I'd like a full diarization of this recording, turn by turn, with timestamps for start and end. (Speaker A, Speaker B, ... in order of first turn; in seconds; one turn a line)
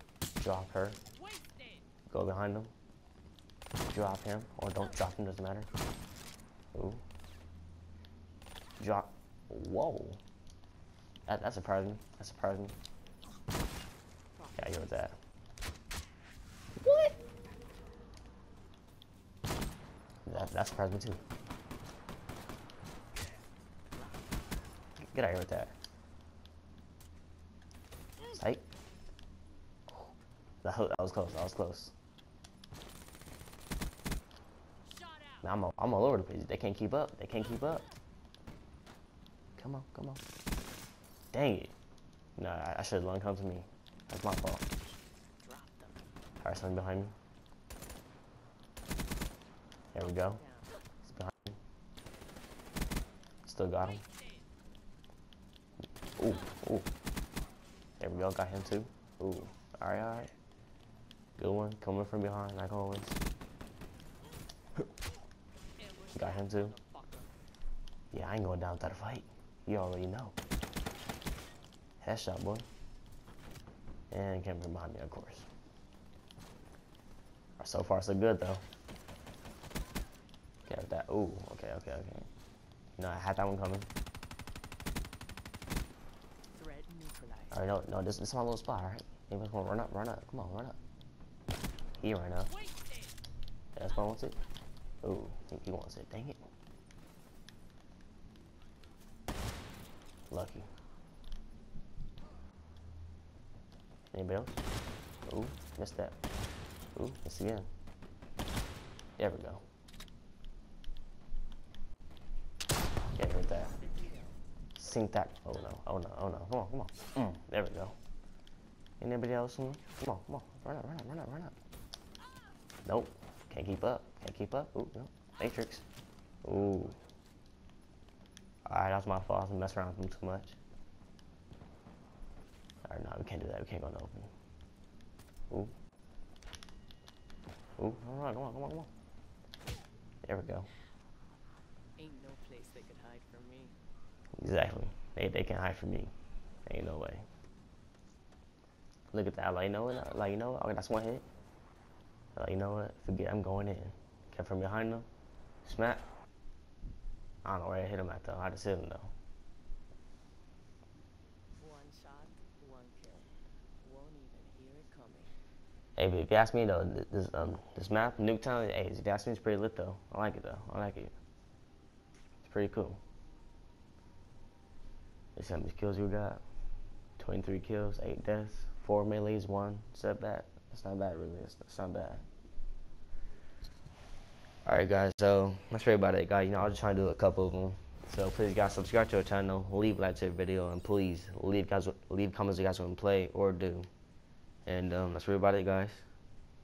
Speaker A: 0.4-1.0
Speaker B: 1.1-1.8
Speaker A: 2.1-2.7
Speaker A: 3.9-5.7
Speaker A: 6.7-7.0
Speaker A: 8.8-10.2
Speaker A: 11.3-12.7
Speaker B: 14.3-14.9
Speaker A: 14.6-15.2
Speaker A: 16.8-17.1
Speaker A: 20.2-21.2
Speaker B: 20.3-21.5
Speaker A: 25.0-25.7
Speaker A: 28.3-28.6
Speaker A: 30.6-31.9
Speaker B: 34.9-35.4
Speaker A: 35.4-37.9
Speaker A: 39.6-40.2
Speaker A: 41.3-41.7
Speaker A: 42.4-44.6
Speaker B: 45.4-46.0
Speaker A: 46.4-47.1
Speaker A: 49.9-50.4
Speaker B: 49.9-50.7
Speaker A: 51.0-51.6
Speaker A: 53.5-54.0
Speaker A: 56.2-56.9
Speaker A: 58.0-60.3
Speaker A: 61.4-63.2
Speaker B: 65.8-67.3
Speaker A: 66.1-66.7
Speaker A: 68.1-70.3
Speaker A: 72.0-72.7
Speaker A: 74.1-75.5
Speaker A: 77.6-78.6
Speaker A: 80.7-82.3
Speaker A: 83.0-83.9
Speaker B: 86.5-87.5
Speaker A: 87.5-90.8
Speaker A: 92.0-92.5
Speaker B: 92.6-93.0
Speaker A: 93.8-94.4
Speaker A: 95.0-96.4
Speaker A: 100.3-100.7
Speaker A: 104.1-104.6
Speaker A: 105.3-106.2
Speaker A: 106.9-107.7
Speaker A: 109.2-109.6
Speaker A: 113.2-113.8
Speaker B: 113.8-114.4
Speaker A: 114.8-118.0
Speaker A: 119.0-121.5
Speaker A: 122.8-125.8
Speaker A: 126.4-127.0
Speaker A: 128.7-130.6
Speaker A: 132.8-134.3
Speaker A: 137.8-138.9
Speaker A: 140.2-140.7
Speaker B: 142.0-143.8
Speaker A: 144.4-146.1
Speaker A: 146.6-147.2
Speaker A: 149.1-151.2
Speaker A: 152.3-155.1
Speaker A: 155.6-156.0
Speaker A: 157.4-159.1
Speaker B: 161.6-165.3
Speaker A: 165.9-171.1
Speaker A: 172.4-173.0
Speaker A: 175.3-176.4
Speaker A: 177.2-182.2
Speaker A: 184.6-193.9
Speaker A: 194.7-196.1